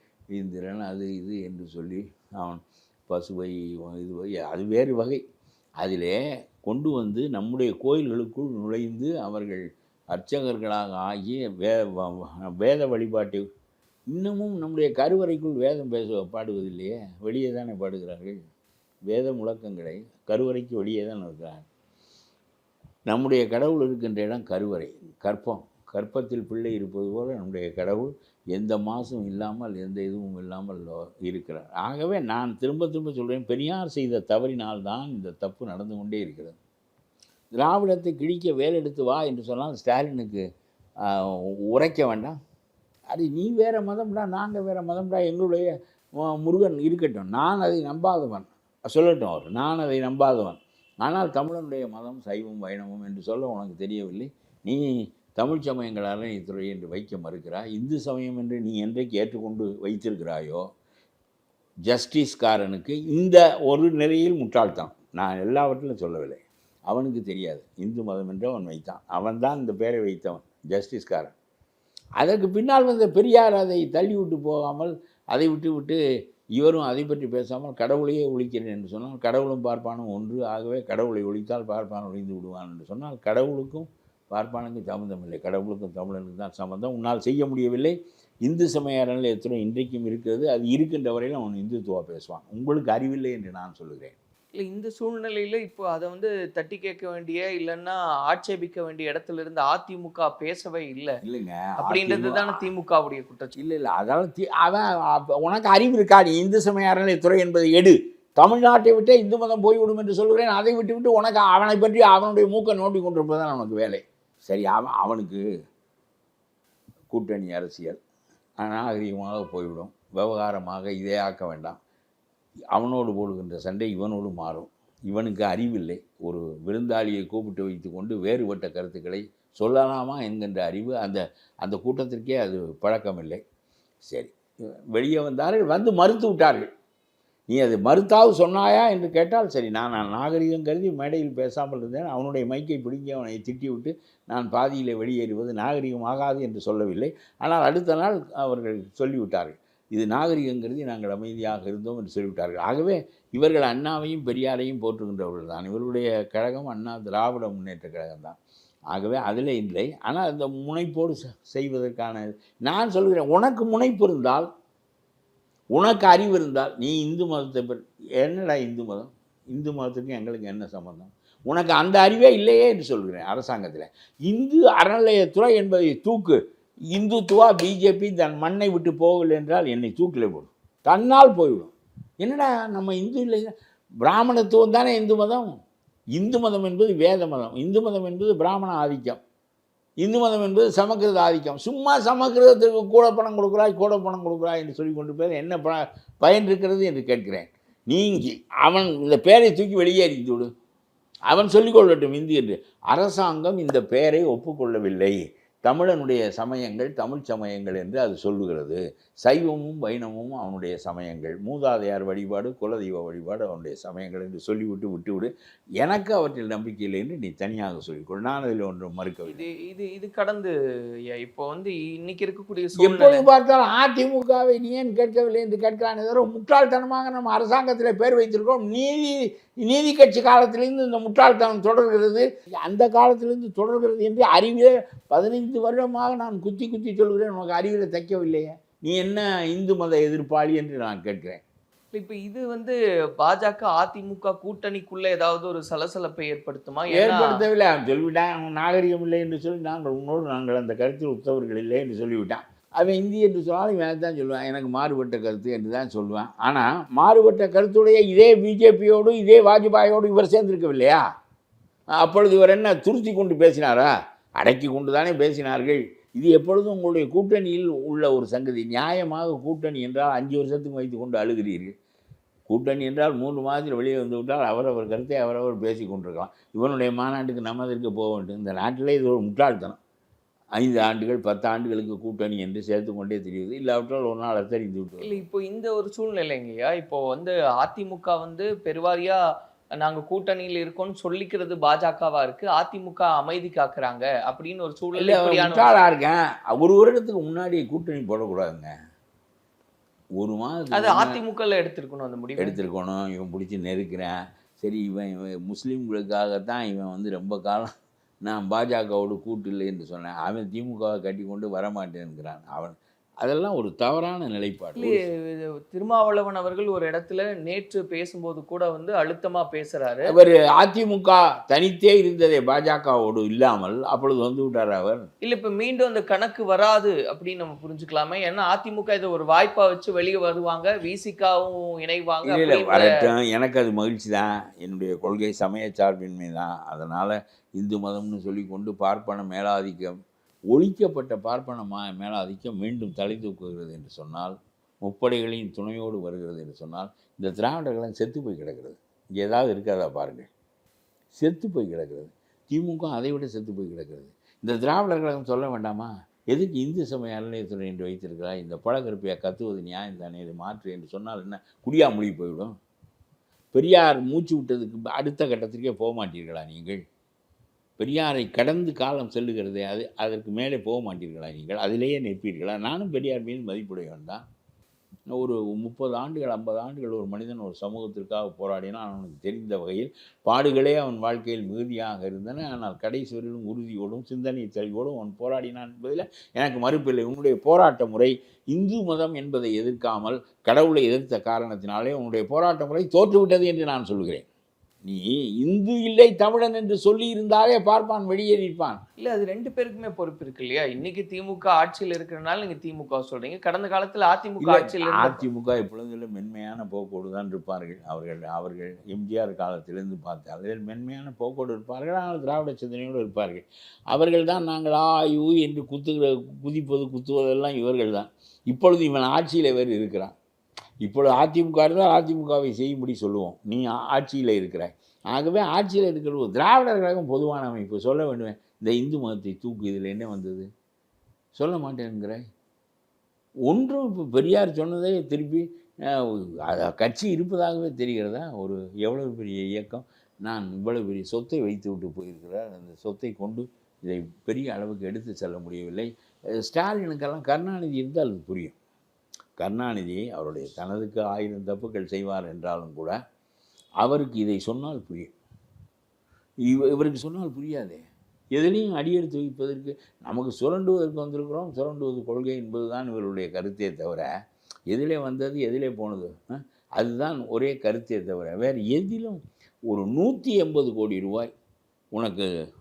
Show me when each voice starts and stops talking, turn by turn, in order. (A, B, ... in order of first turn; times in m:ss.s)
0:00.3-0:05.2 A
0:05.8-0:13.5 A
0:14.1-0:18.4 A
0:19.1-0:21.6 A
0:23.1-0:36.6 A
0:37.5-0:40.4 A
0:41.0-0:42.4 A
0:43.1-1:00.7 A
1:01.9-1:11.3 A
1:12.2-1:16.0 A
1:16.6-1:34.2 A
1:34.6-1:41.2 B
1:41.2-1:42.7 A
1:41.8-1:43.5 B
1:43.6-1:55.4 A
1:57.1-1:58.0 A
1:58.6-2:01.8 A
2:02.7-2:13.4 A
2:14.0-2:14.3 A
2:14.9-2:16.7 A
2:17.5-2:38.4 A
2:38.9-2:44.5 A
2:45.7-2:56.4 A
2:56.9-3:05.6 A
3:06.2-3:09.2 A
3:10.0-3:20.5 A
3:21.3-3:35.3 A
3:35.8-3:39.5 A
3:39.3-3:40.6 B
3:41.1-3:43.3 B
3:42.8-4:01.4 A
4:01.9-4:07.4 B
4:06.9-4:21.0 A
4:22.0-4:31.7 A
4:32.5-4:39.8 A
4:40.6-4:45.2 A
4:45.0-4:49.2 B
4:49.8-4:55.7 B
4:55.0-4:58.7 A
5:00.2-5:01.2 A
5:00.7-5:02.6 B
5:02.4-5:07.7 A
5:08.2-5:15.0 A
5:14.8-5:20.2 B
5:20.1-5:25.1 A
5:25.2-5:33.1 B
5:32.2-5:40.0 A
5:40.5-5:50.3 A
5:51.2-6:02.5 A
6:03.5-6:06.8 A
6:07.8-6:14.2 A
6:15.1-6:34.3 A
6:34.8-6:38.8 A
6:39.0-6:45.2 B
6:44.4-7:00.1 A
7:00.8-7:10.5 A
7:11.4-7:12.2 A
7:13.5-7:28.6 A
7:29.4-7:33.0 A
7:33.8-7:35.1 A
7:36.5-7:37.8 A
7:38.3-7:44.1 A
7:44.7-7:51.3 A
7:51.9-7:52.3 A